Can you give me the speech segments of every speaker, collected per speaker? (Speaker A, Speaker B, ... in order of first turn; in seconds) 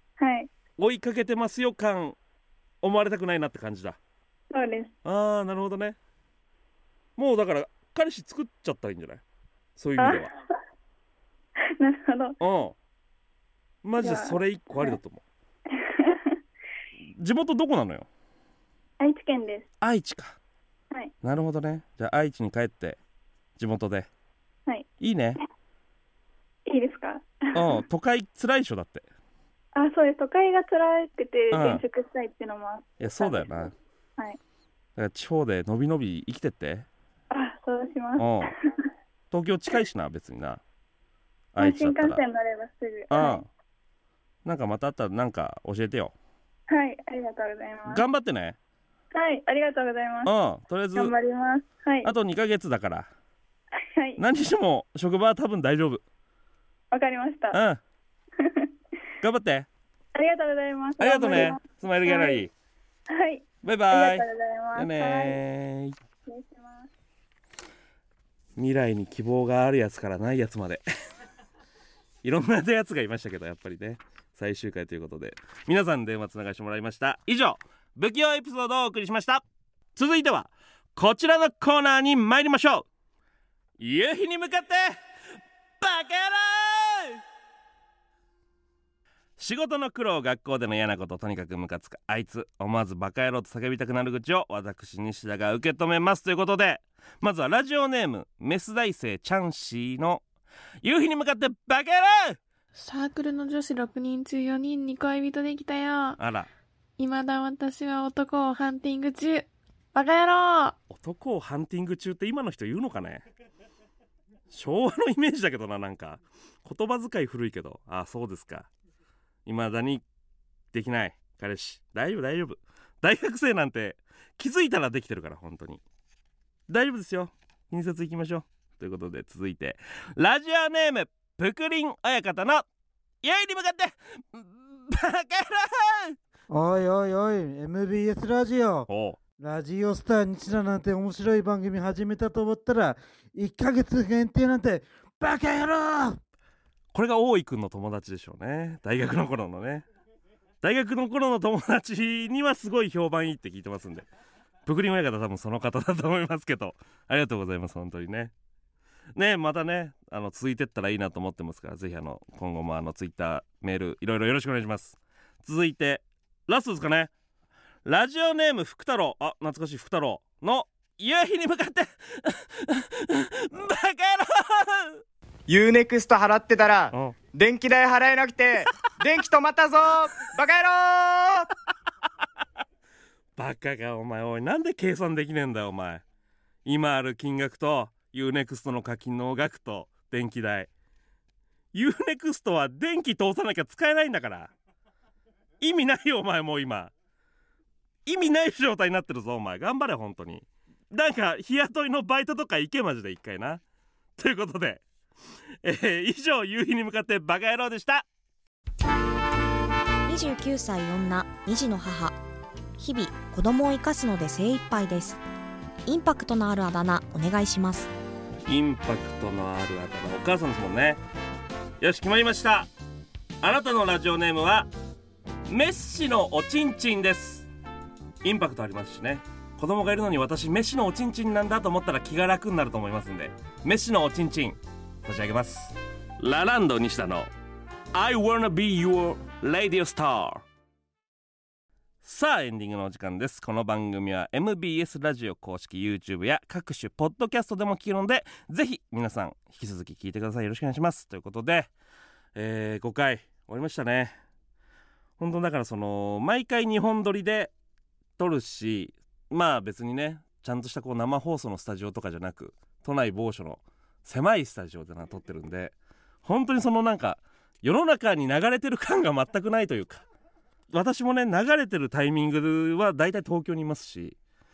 Speaker A: 0.2-0.5, 4.5-4.9, 10.0-10.3, 11.8-12.4, 14.0-15.0, 15.7-16.4, 19.0-19.7, 26.6-27.8, 29.8-34.4, 37.3-38.8, 41.6-43.4, 46.7-48.0, 49.1-50.3, 51.0-52.1, 54.0-54.2, 56.9-57.6, 58.4-58.7, 60.1-62.4, 63.1-65.4, 66.3-66.9
Speaker B: 0.8-2.2, 2.8-4.0, 5.0-6.0, 7.2-9.2, 9.8-10.3, 12.4-12.8, 13.8-15.2, 17.2-18.1, 19.8-20.4, 21.2-23.0, 23.6-24.1, 25.0-25.4, 27.5-29.1, 31.5-31.8, 33.0-33.7, 35.0-36.9, 38.2-38.5, 39.3-40.6, 41.5-42.2, 43.1-43.5, 44.5-46.1, 47.9-48.6, 50.2-51.1, 52.0-53.1, 54.2-56.0, 57.5-57.8, 59.2-59.7, 61.0-62.5, 63.6-66.0, 68.6-70.8, 72.2-79.4, 80.0-82.8, 83.8-85.0, 85.8-87.2, 89.4-100.2, 100.8-102.4, 106.2-106.5, 110.9-113.2, 114.5-118.7, 119.5-120.0, 120.7-125.8, 126.7-132.6, 133.2-136.2, 138.9-139.2, 146.9-149.8, 150.6-154.1, 154.7-158.3, 159.2-167.1, 167.8-175.0, 183.4-186.0, 186.6-190.7, 191.7-194.5, 195.6-196.9, 198.1-203.6, 204.2-204.8, 205.6-208.1, 218.5-221.0, 221.8-222.7, 223.4-224.7, 225.5-227.5, 228.2-237.3, 237.9-240.4, 242.0-251.7, 252.3-254.2, 255.2-257.5, 258.2-265.7, 266.2-270.0, 270.7-274.2
Speaker C: 102.8-106.2, 107.0-110.8
Speaker D: 136.5-146.2
Speaker E: 175.5-181.5
Speaker F: 210.1-212.2, 212.8-215.2, 215.9-217.9